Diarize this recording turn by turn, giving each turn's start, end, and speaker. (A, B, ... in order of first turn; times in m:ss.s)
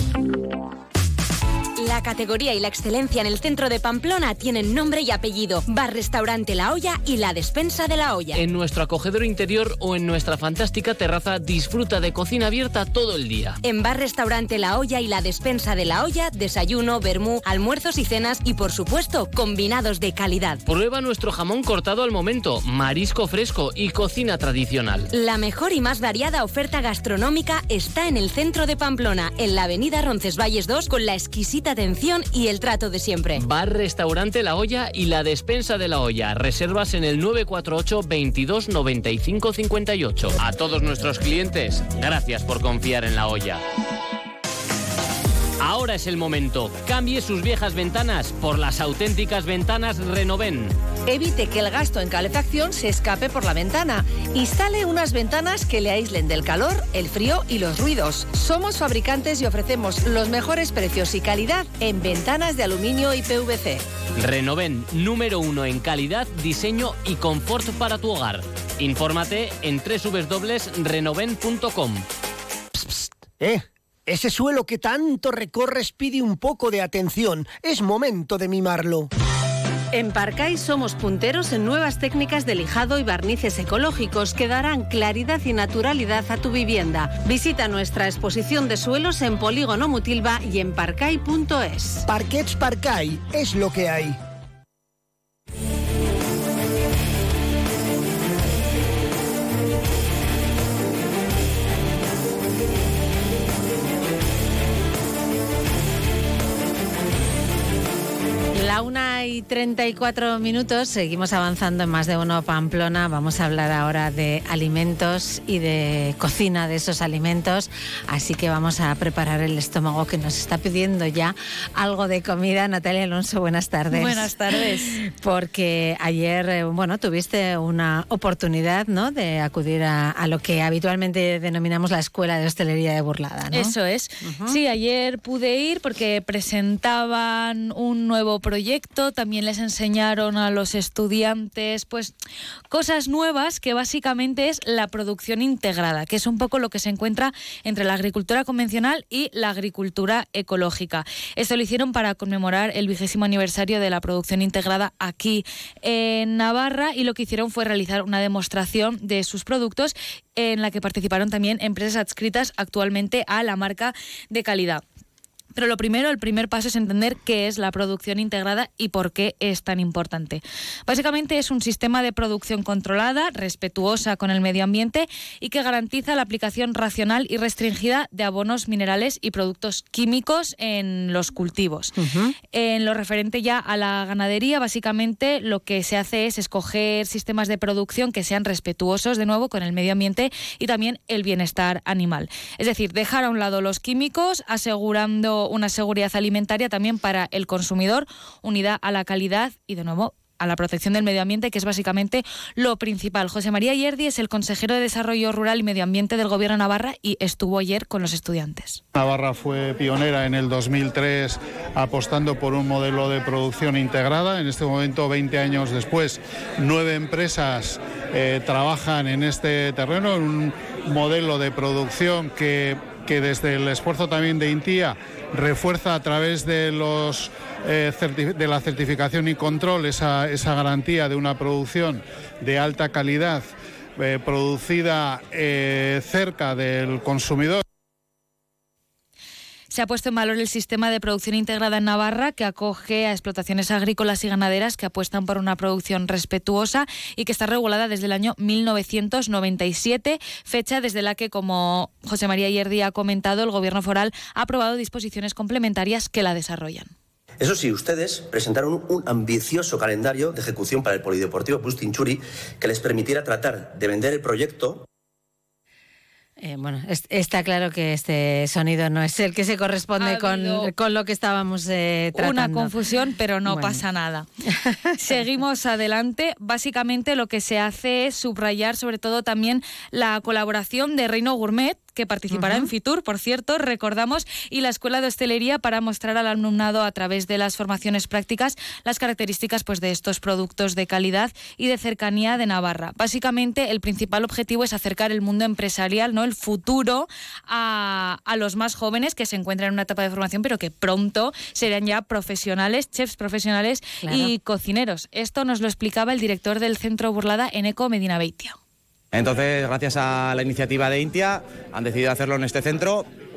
0:01.8-0:08.4 A
0:08.3-0:13.7 B
0:13.7-0:20.6 A
0:20.6-0:25.1 B
0:25.1-0:33.4 A
0:33.4-0:43.6 B
0:45.6-0:50.7 B
0:51.1-1:03.8 C
1:04.2-1:12.0 B
1:14.1-1:14.4 D
1:14.9-1:16.7 D
1:19.9-1:32.0 E
1:48.5-2:04.3 E
2:03.9-2:05.0 F
2:04.9-2:14.6 E
2:13.5-2:22.1 F
2:22.7-2:44.8 F
2:45.5-3:01.9 F
3:02.0-3:02.3 E
3:02.5-3:28.8 F
3:28.9-3:57.6 G
3:59.7-4:16.9 F
4:17.4-4:24.8 H
4:26.4-4:32.7 E
4:30.2-4:30.6 F
4:32.1-4:34.3 F
4:33.5-4:33.8 E
4:34.5-4:34.9 E
4:35.0-5:08.5 F
4:42.3-4:42.7 E
5:04.0-5:04.3 E
5:09.1-5:13.1 I